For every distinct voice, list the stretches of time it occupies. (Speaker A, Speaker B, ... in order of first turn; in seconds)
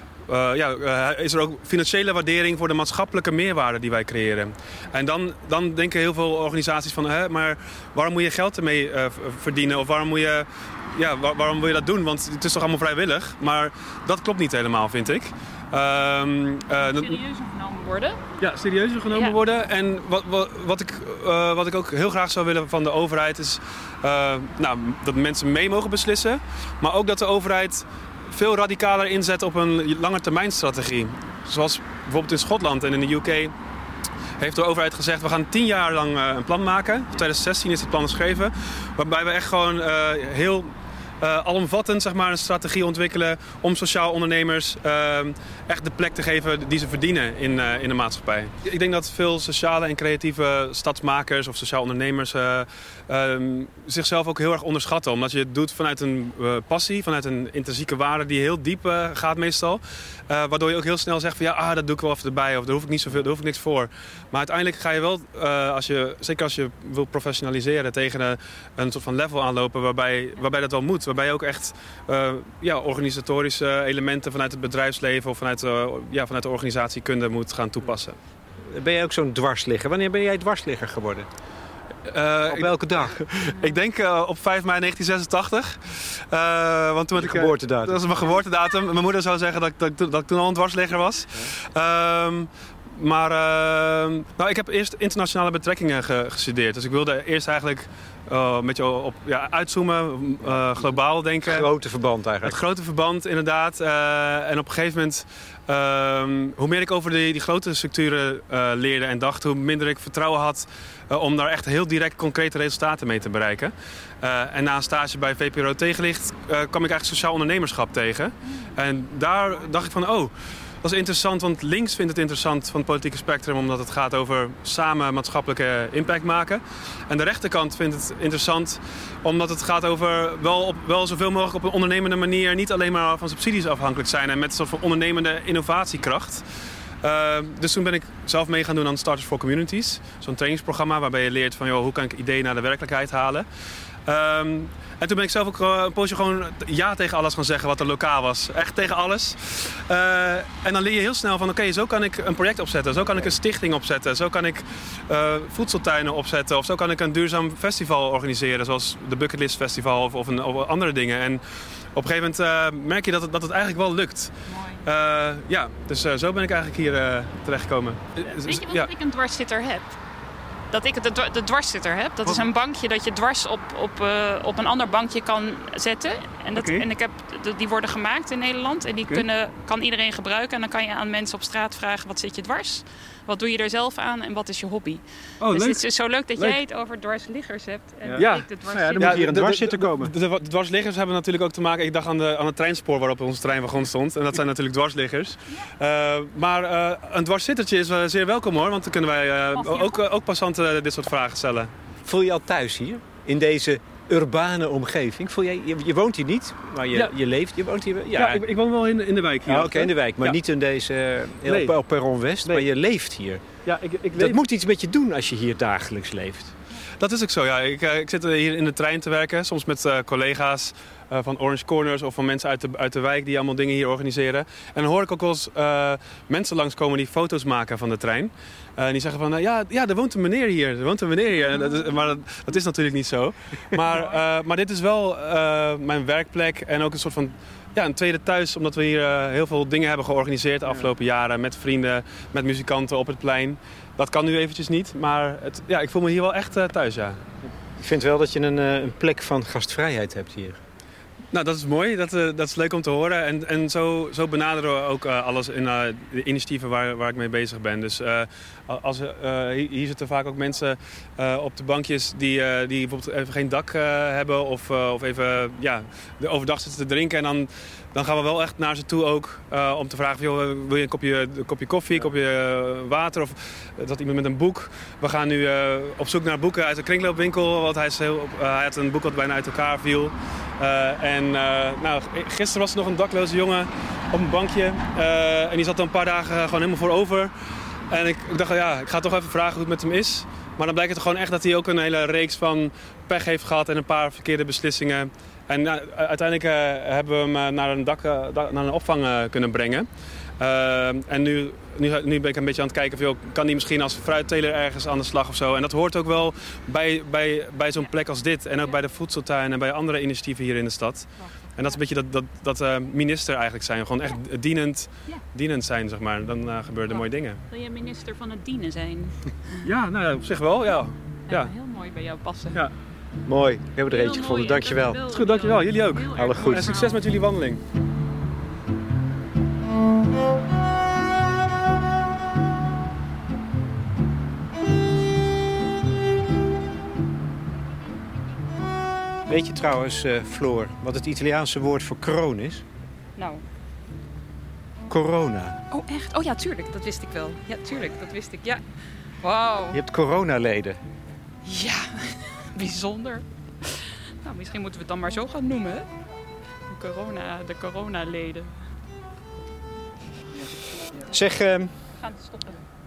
Speaker A: 0.3-17.2, 18.4-33.5, 34.4-78.2, 82.1-101.7, 102.4-136.4, 137.0-143.5, 144.1-161.4, 161.9-164.3, 164.8-168.9, 176.6-176.9, 185.4-185.8, 188.2-201.7, 208.2-210.4, 211.4-211.8, 213.7-214.4, 217.0-247.2, 251.3-287.3, 287.9-299.9, 300.4-317.4, 319.6-321.5, 325.1-327.6
Speaker B: 16.8-18.2, 19.1-19.4, 164.5-164.8, 168.2-170.0, 170.7-189.3, 199.6-200.0, 311.2-311.7, 316.9-319.7, 321.3-322.6, 323.9-327.1, 343.2-343.4, 345.7-348.6, 349.2-349.8, 351.4-355.9, 356.7-358.5, 362.0-362.6
Speaker C: 78.6-81.3, 82.5-83.5, 87.2-88.0, 101.4-102.6, 188.1-190.1, 202.1-208.4, 209.5-213.6, 214.2-216.5, 247.8-250.6, 323.3-325.0, 326.2-326.7, 339.3-342.6, 344.9-345.6, 349.7-350.8, 361.0-361.7